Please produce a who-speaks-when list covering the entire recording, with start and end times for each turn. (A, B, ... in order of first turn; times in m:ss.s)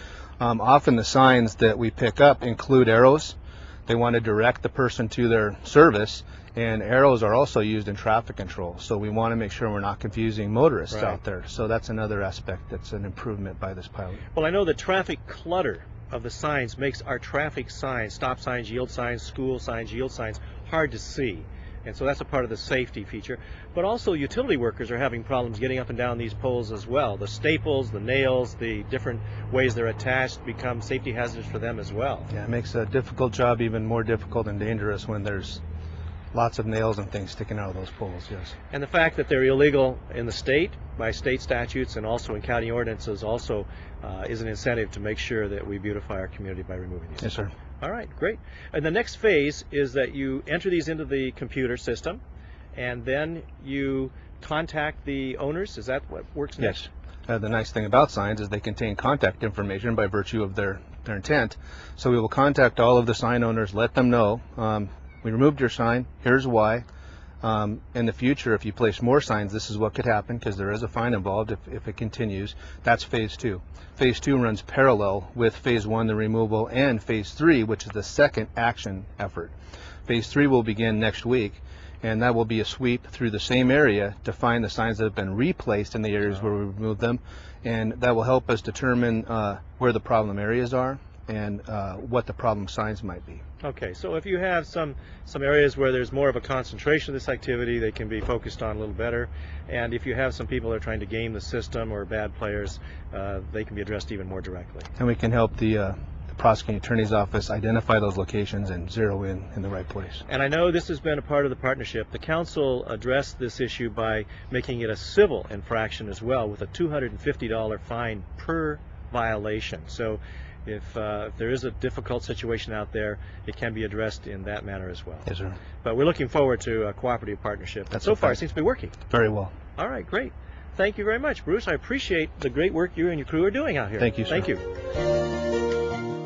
0:00.4-0:14.2 A
0:10.9-0:11.2 B
0:14.3-0:32.3 B
0:32.3-0:35.6 A
0:36.3-0:38.6 A
0:38.7-0:52.2 B
0:47.2-0:47.5 A
0:52.8-0:56.8 B
0:56.6-1:06.8 A
1:07.4-1:19.5 A
1:20.1-1:33.4 A
1:33.6-1:44.9 B
1:45.0-1:50.2 A
1:50.3-2:05.3 B
2:05.3-2:05.6 A
2:05.8-2:09.0 B
2:07.9-2:08.4 A
2:09.1-2:09.5 A
2:09.8-2:14.6 B
2:14.0-2:14.5 A